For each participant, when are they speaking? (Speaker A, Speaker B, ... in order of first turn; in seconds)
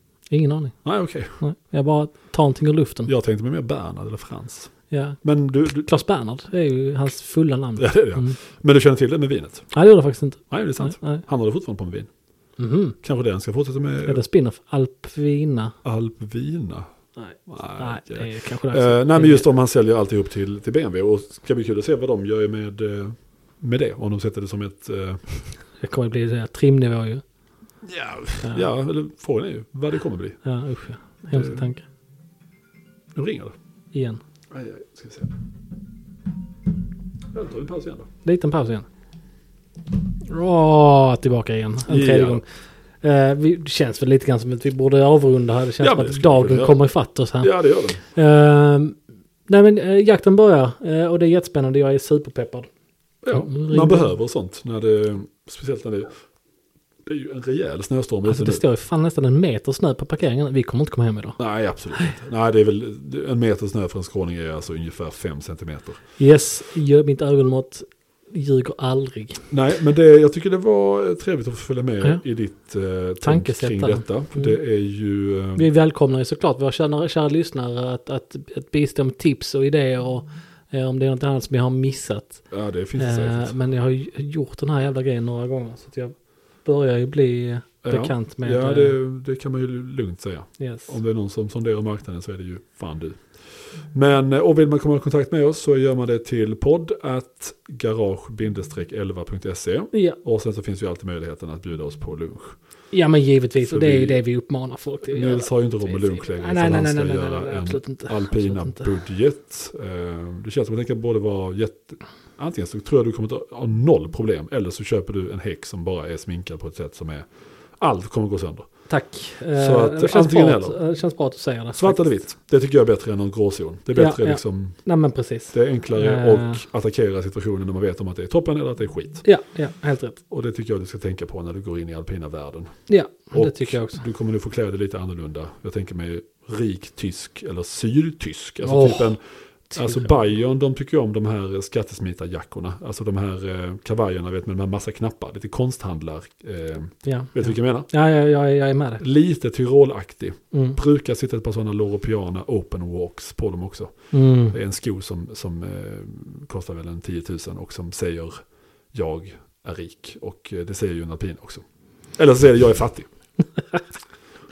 Speaker A: 0.3-3.1, 4.9-5.2, 5.7-8.4, 9.7-11.2, 12.6-13.0, 14.0-15.8, 17.2-19.4, 25.8-27.2, 30.4-31.8, 33.9-34.2, 38.2-38.9, 40.3-42.4, 43.0-49.0, 49.5-52.7, 53.3-54.1, 58.2-61.4, 66.2-69.5, 73.2-74.6, 75.5-82.5, 83.0-89.0, 90.6-90.9, 99.9-100.2, 102.9-108.9, 118.9-122.0, 123.9-126.6, 129.2-130.2, 132.9-134.0, 138.6-139.2, 139.7-140.2, 147.0-149.0, 150.5-150.8, 154.1-154.6
Speaker B: 0.8-1.4, 3.1-5.9, 7.8-9.7, 10.5-12.1, 13.0-14.2, 15.8-16.9, 17.5-25.2, 27.8-30.4, 31.3-31.6, 33.1-33.5, 34.5-35.3, 37.3-38.1, 41.9-42.4, 45.8-46.8, 47.4-48.0, 53.2-56.2, 57.0-58.6, 61.4-66.0, 69.5-75.7, 82.5-83.5, 87.8-102.5, 103.6-104.2, 105.0-117.3, 117.8-118.7, 119.5-120.8, 121.8-124.8, 125.5-129.2, 130.3-132.7, 133.3-139.2, 139.8-147.9, 149.0-153.9, 154.5-158.4, 158.9-161.6, 162.2-163.1